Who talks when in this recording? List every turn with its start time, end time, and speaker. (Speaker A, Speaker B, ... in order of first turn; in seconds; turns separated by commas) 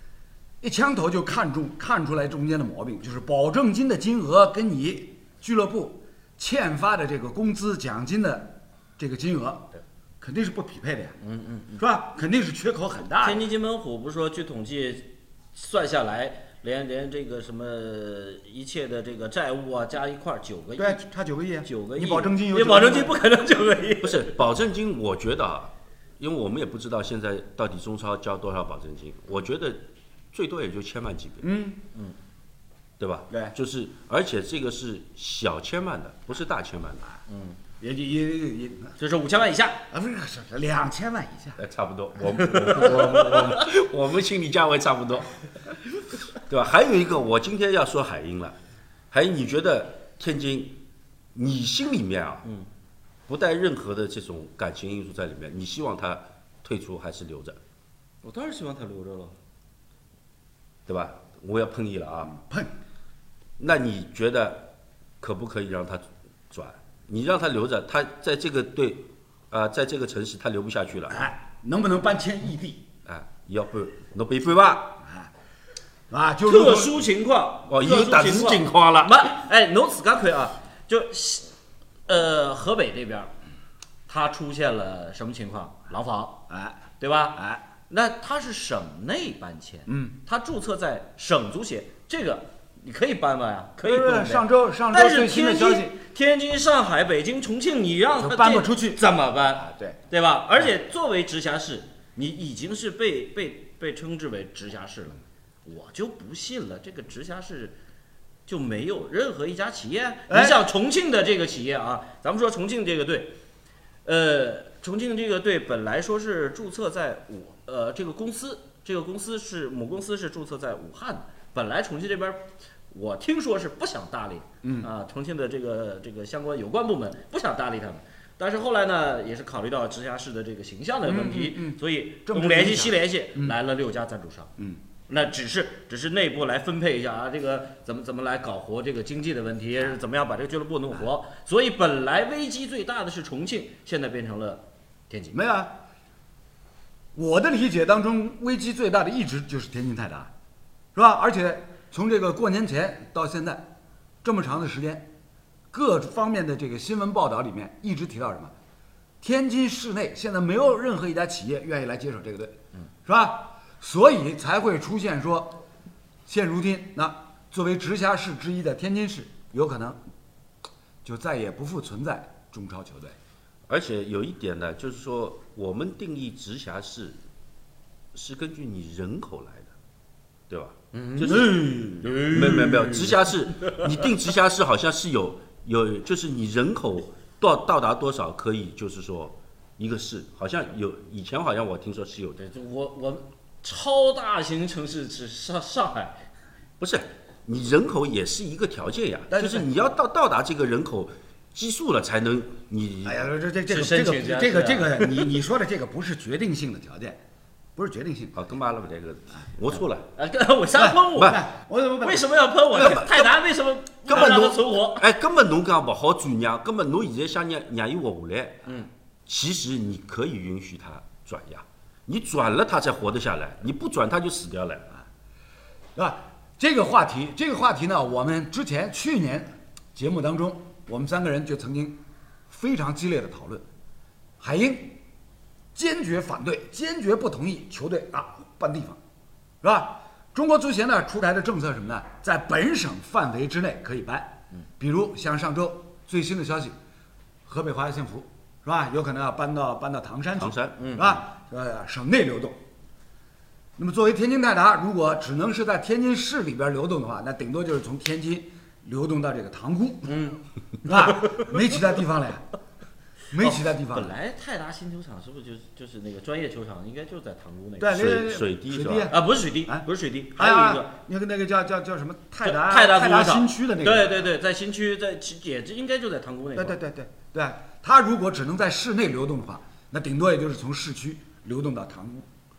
Speaker A: 0.6-9.7, Speaker A: 10.2-11.2, Speaker B: 11.2-11.8, Speaker A: 11.8-13.4, Speaker B: 13.2-21.1, Speaker A: 20.8-23.2, Speaker B: 21.6-24.4, Speaker C: 24.0-31.4, Speaker A: 31.4-31.8, Speaker C: 33.0-37.1, Speaker A: 33.3-33.5, Speaker B: 37.3-37.6, Speaker A: 37.8-39.0, Speaker B: 39.0-39.8, Speaker A: 39.9-41.6, Speaker C: 41.6-48.6, Speaker B: 42.5-43.7, Speaker C: 49.1-50.8, Speaker C: 51.3-52.5, Speaker C: 53.3-57.6, Speaker B: 58.2-59.4, Speaker C: 60.9-62.3, Speaker A: 62.3-62.7, Speaker C: 63.6-71.2, Speaker A: 71.1-72.8, Speaker C: 73.0-75.0, Speaker A: 75.0-75.3, Speaker A: 76.1-77.0, Speaker B: 76.4-81.5, Speaker C: 77.7-79.3, Speaker B: 82.1-83.3, Speaker B: 84.1-107.8, Speaker A: 86.5-86.8, Speaker A: 87.4-87.6, Speaker A: 89.9-90.2, Speaker A: 93.8-96.0, Speaker A: 98.2-99.0, Speaker A: 99.6-100.0, Speaker B: 108.5-113.4, Speaker A: 110.3-110.6, Speaker B: 114.0-134.5, Speaker A: 124.6-124.9, Speaker A: 131.1-133.6, Speaker B: 135.1-145.4, Speaker A: 145.3-145.7, Speaker A: 147.2-150.3, Speaker A: 150.9-153.7, Speaker A: 154.2-155.1, Speaker A: 155.7-158.5, Speaker A: 159.2-165.6, Speaker A: 166.3-170.0, Speaker A: 171.1-173.2, Speaker C: 173.7-177.2, Speaker C: 178.1-179.7, Speaker C: 180.5-181.5, Speaker B: 180.9-183.2, Speaker A: 181.2-182.8, Speaker C: 182.2-192.4, Speaker B: 192.4-196.2, Speaker C: 196.8-203.2, Speaker A: 199.3-199.7, Speaker A: 203.0-207.2, Speaker B: 203.7-205.4, Speaker A: 207.8-208.4, Speaker C: 208.3-210.1, Speaker B: 210.2-211.4, Speaker A: 210.8-213.0, Speaker B: 212.0-215.1, Speaker C: 212.8-213.3, Speaker C: 214.1-218.7, Speaker C: 219.3-224.9, Speaker A: 226.0-233.7, Speaker A: 234.4-235.0, Speaker A: 235.8-239.0, Speaker A: 239.6-246.8, Speaker A: 247.5-252.6, Speaker C: 250.4-250.9, Speaker B: 250.8-251.2, Speaker A: 253.8-262.5, Speaker B: 260.1-261.5, Speaker A: 263.3-264.1, Speaker B: 263.4-268.2, Speaker A: 267.8-274.3, Speaker C: 267.9-269.1, Speaker B: 269.1-270.9, Speaker B: 272.4-276.8, Speaker A: 276.6-282.3